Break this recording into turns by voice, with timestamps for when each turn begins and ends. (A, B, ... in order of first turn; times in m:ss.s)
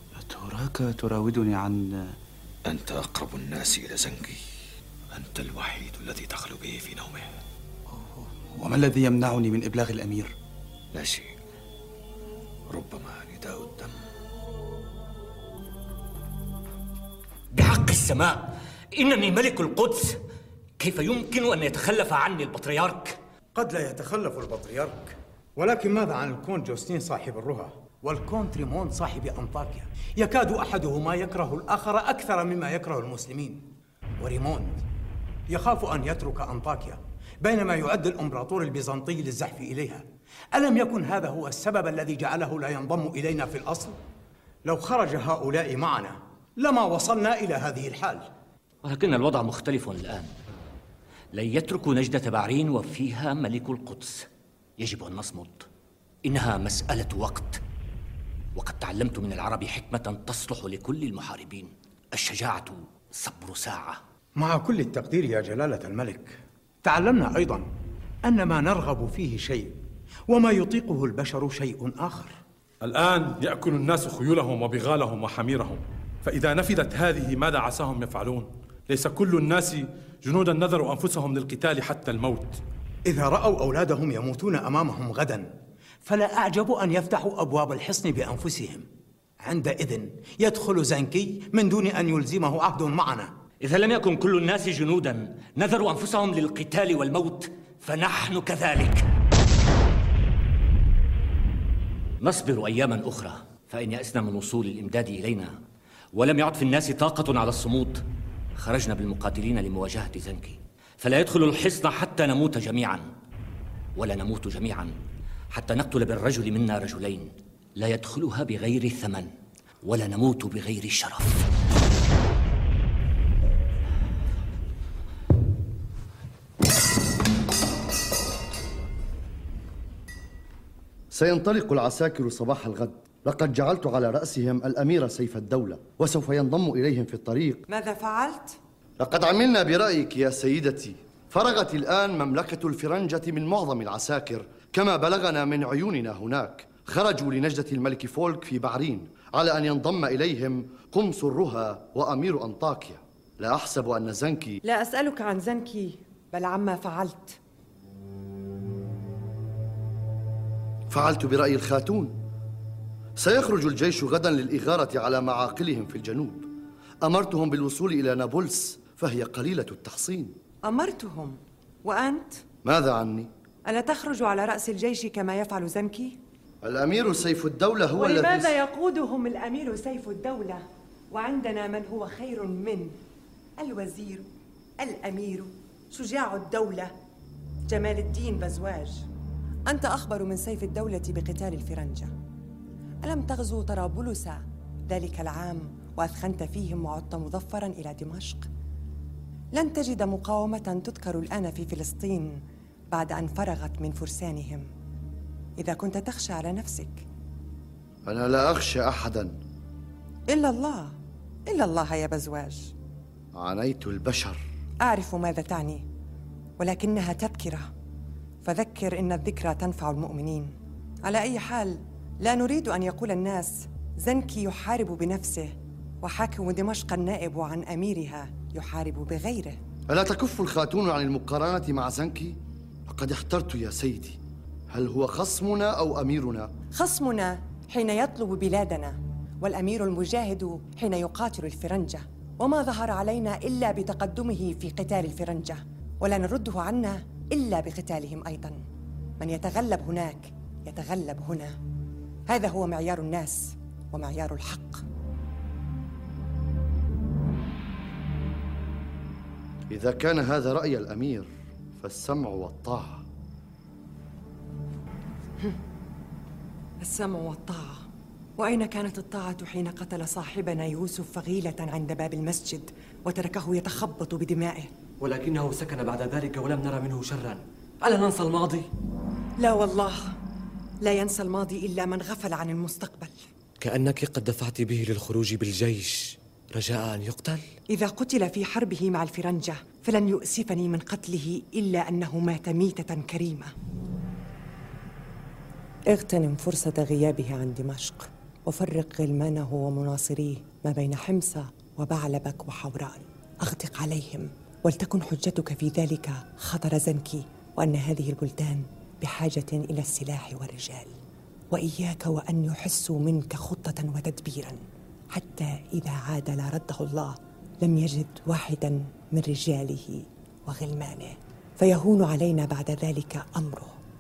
0:00.2-0:02.1 A
0:02.7-0:04.4 B
0:05.1-0:07.3 B
0:07.9-0:10.3 A
0:10.9-0:11.3 B
0:12.7-0:13.9 B
0:17.5-0:20.2 C
0:20.8-0:23.2 C
0:23.6-0:34.8 D
0:35.5-0:44.0 D
0:44.6-0:48.3 D
0:48.8-0:50.3 C
0:51.3-0:54.3 C
0:54.8-0:55.7 C
0:56.2-0:57.6 C
0:58.6-1:04.0 C
1:04.4-1:07.7 D
1:08.3-1:09.8 D
1:10.3-1:12.4 D
1:12.8-1:22.6 E
1:23.1-1:28.9 D
1:29.4-1:33.3 D
1:33.6-1:39.0 C
1:42.2-1:45.6 C
1:46.1-1:48.0 C
1:48.6-1:53.1 C
1:54.0-1:55.0 C
1:55.5-1:59.3 C
1:59.8-2:01.5 C
2:11.1-2:17.6 F
2:17.7-2:18.6 G
2:19.0-2:34.6 F
2:34.6-2:37.4 G
2:40.9-2:42.2 F
2:43.2-2:46.5 F
2:47.0-2:50.4 F
2:50.7-2:52.4 G
2:52.6-2:53.3 F
2:53.7-2:56.2 G
2:56.6-2:58.5 F
2:58.0-3:03.0 G
3:03.6-3:04.3 G
3:04.8-3:06.9 G
3:07.7-3:09.1 G
3:09.7-3:12.1 G
3:13.0-3:18.5 G
3:19.5-3:24.7 G
3:25.6-3:27.0 G
3:28.1-3:29.4 F
3:30.3-3:31.0 G
3:31.5-3:32.7 G
3:33.4-3:34.4 F
3:34.8-3:35.8 G
3:36.6-3:37.7 G
3:38.4-3:49.6 G
3:49.9-3:54.2 F
3:54.7-3:56.5 F
3:56.8-4:08.6 G
4:09.2-4:11.6 G
4:12.3-4:14.8 G
4:19.7-4:21.3 F
4:21.8-4:23.0 F
4:26.8-4:27.8 G
4:28.4-4:34.7 G
4:35.0-4:38.7 H
4:39.4-4:40.1 G
4:40.8-4:43.2 G
4:43.6-4:47.5 H
4:47.7-4:53.5 G
4:55.9-5:10.9 G
5:11.5-5:14.6 G
5:15.1-5:23.8 G